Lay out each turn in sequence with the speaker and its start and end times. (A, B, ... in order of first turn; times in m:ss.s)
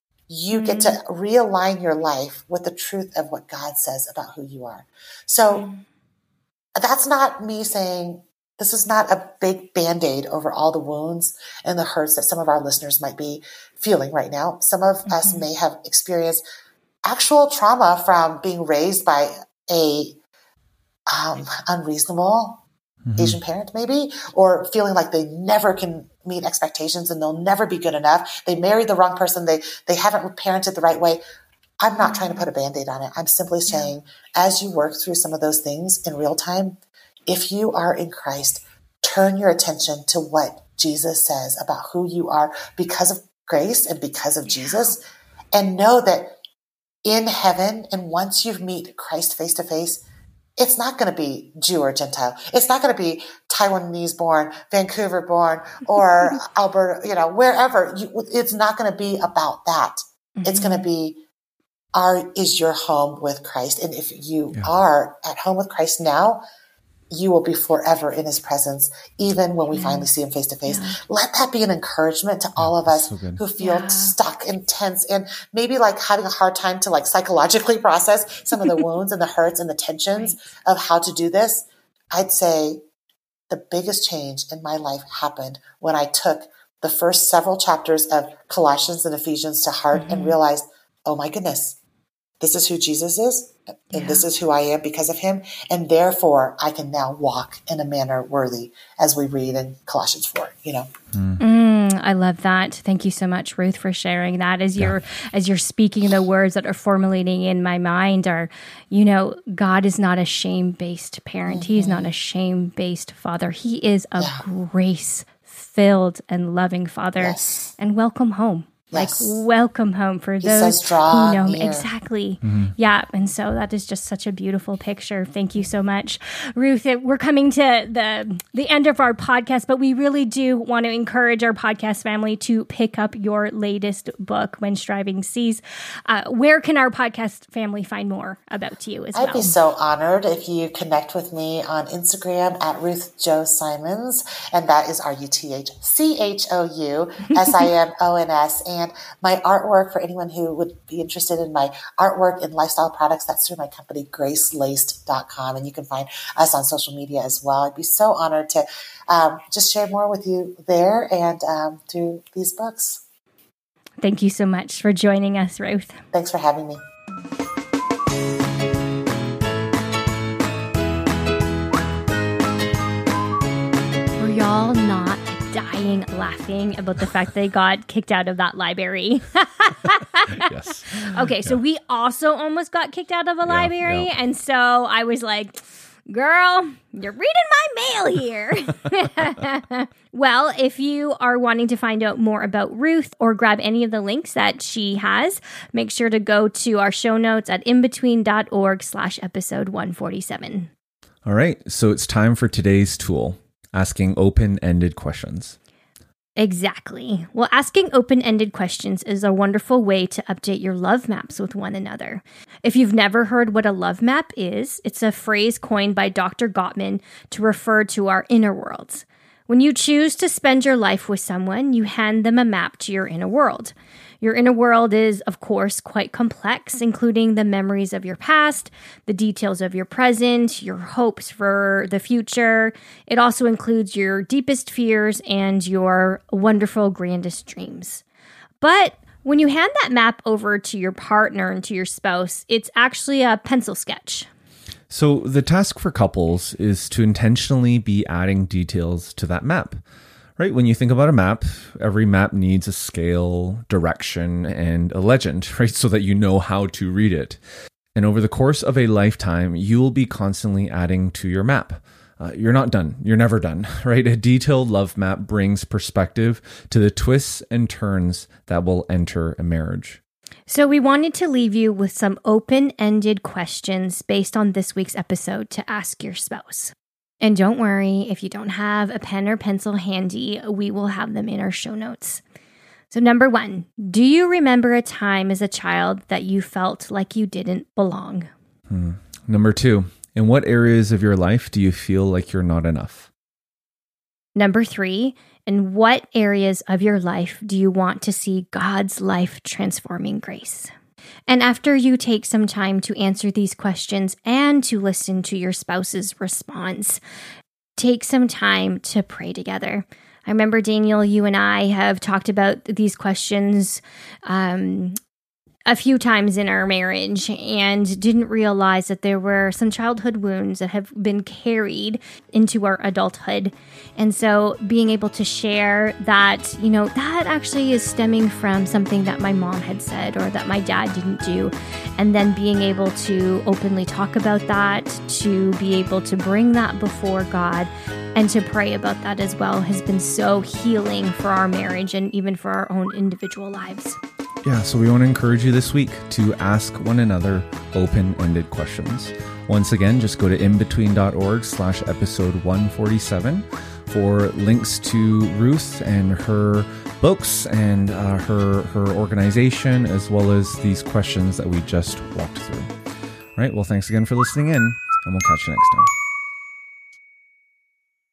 0:00.3-0:05.7 A
0:00.5-0:01.0 B
0:05.5-0:05.8 B
0:06.8-0:16.4 A
0:15.1-0:15.4 B
0:17.0-0:20.2 A
0:21.1-0:22.6 A
0:23.1-0:23.4 C
0:23.2-0:31.2 A
0:31.8-0:45.0 A
0:32.0-0:32.4 B
0:44.5-0:45.0 B
0:45.5-0:46.3 A
0:47.0-0:50.0 A
0:50.6-1:01.2 A
1:00.4-1:00.8 B
1:01.9-1:06.4 A
1:07.1-1:22.8 A
1:09.7-1:10.1 B
1:10.7-1:11.0 B
1:12.6-1:13.4 C
1:13.6-1:14.2 B
1:20.2-1:20.4 B
1:23.5-1:31.8 A
1:29.9-1:30.4 B
1:32.4-1:40.9 A
1:33.9-1:34.2 B
1:41.1-1:41.4 C
1:41.4-2:19.6 B
1:51.5-1:52.1 A
1:54.2-1:54.4 A
1:57.2-1:57.7 A
1:58.9-1:59.4 A
2:00.4-2:01.9 A
2:02.4-2:02.7 C
2:19.1-2:43.0 A
2:44.0-2:46.0 B
2:46.1-2:46.8 A
2:54.2-3:20.7 B
3:00.4-3:01.6 C
3:03.4-3:04.1 C
3:21.2-3:25.6 C
3:26.4-3:58.0 B
3:58.6-4:04.3 B
4:04.9-4:09.8 C
4:10.4-4:17.4 C
4:18.0-4:30.0 C
4:30.5-4:42.2 B
4:42.9-4:48.3 B
4:48.7-4:53.1 C
4:54.4-5:00.7 B
5:01.3-5:07.0 B
5:07.8-5:15.0 B
5:15.7-5:44.0 B
5:44.4-6:02.7 C
6:03.4-6:05.9 C